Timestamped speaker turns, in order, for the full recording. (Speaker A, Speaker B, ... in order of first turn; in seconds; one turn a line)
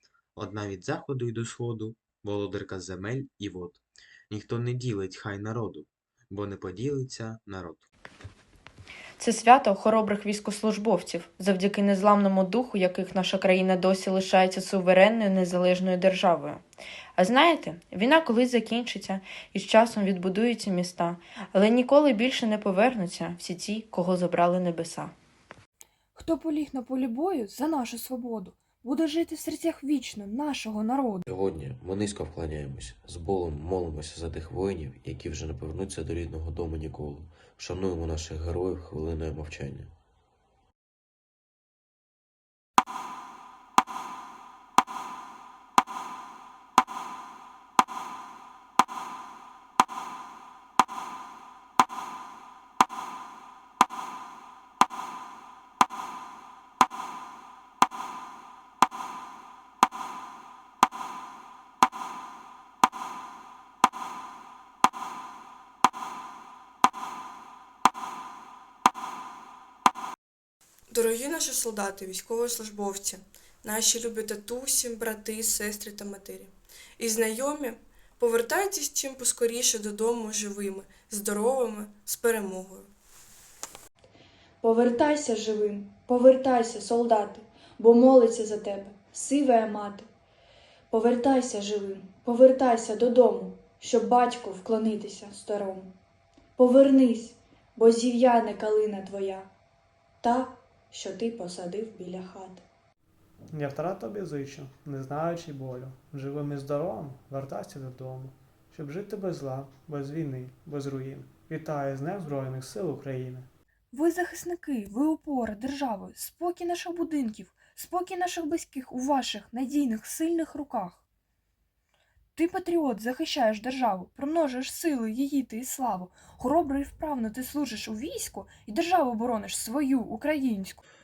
Speaker A: 0.3-7.9
Speaker B: 9.2-16.6
Speaker B: 17.2-25.1
Speaker C: 26.1-31.2
Speaker D: 31.3-39.9
Speaker E: 70.9-82.9
Speaker F: 84.6-90.1
Speaker F: 90.9-95.9
Speaker F: 96.6-99.5
Speaker F: 100.2-102.6
Speaker G: 103.5-113.5
Speaker C: 113.9-121.0
Speaker C: 122.3-130.8